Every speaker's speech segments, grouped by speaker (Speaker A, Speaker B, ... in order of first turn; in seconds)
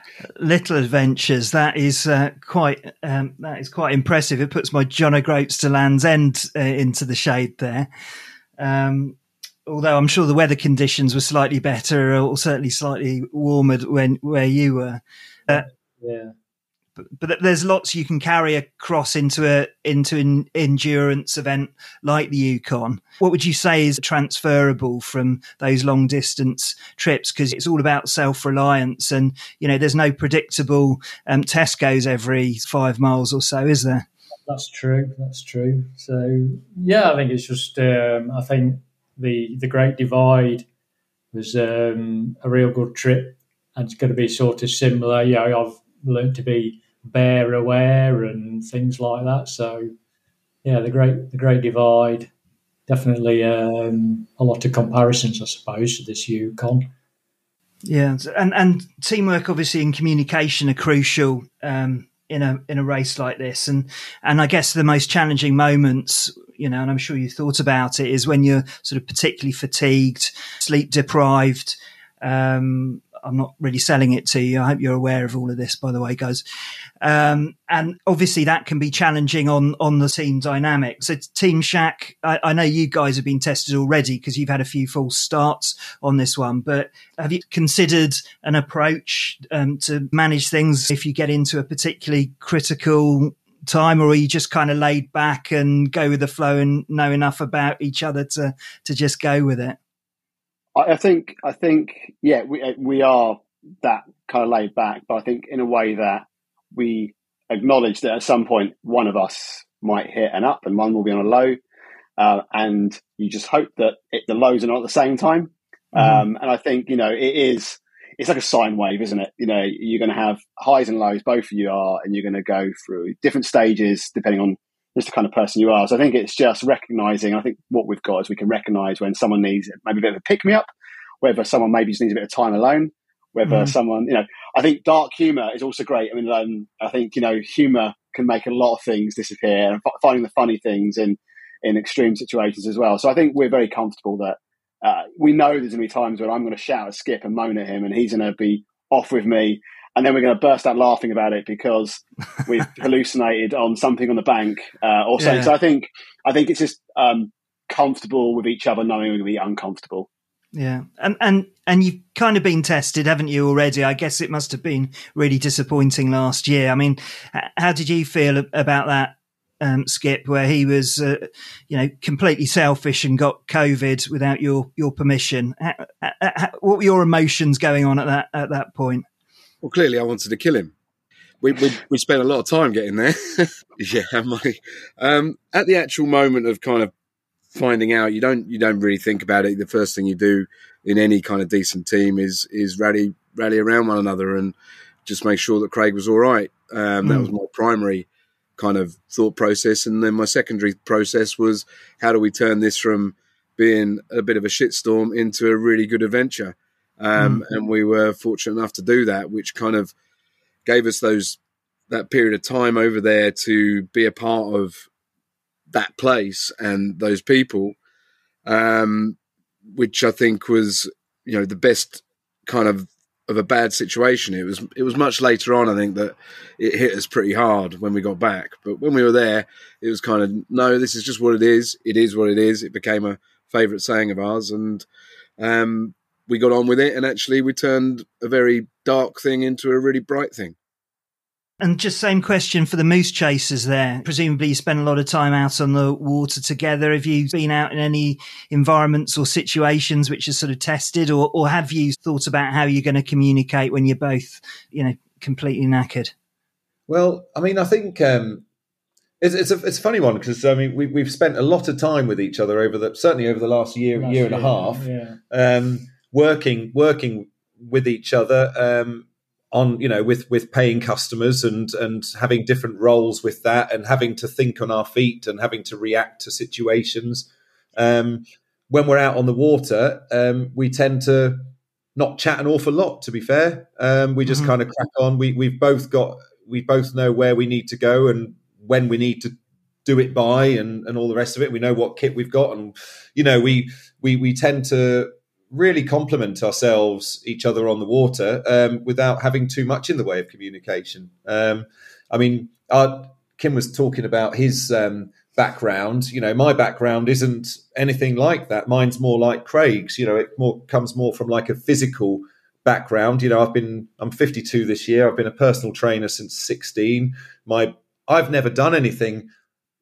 Speaker A: 0.4-7.9, 8.6-15.7, 17.2-34.1, 57.9-76.4, 77.0-99.8, 115.9-116.3, 133.4-133.7, 155.2-155.5, 160.5-179.1, 197.0-197.3, 207.2-207.4, 241.6-256.1, 284.3-284.5
Speaker B: 15.5-16.4, 34.5-40.7, 41.3-49.9, 50.6-52.3, 52.9-56.9, 264.0-265.2
Speaker C: 100.8-111.6, 112.2-130.7, 131.2-160.1
Speaker D: 179.6-180.7, 181.4-186.9, 187.5-194.6, 195.1-209.9, 210.7-211.4, 211.9-214.9, 215.7-217.8, 218.5-219.2, 219.7-234.8, 235.4-240.6
Speaker E: 256.9-258.4, 259.2-319.3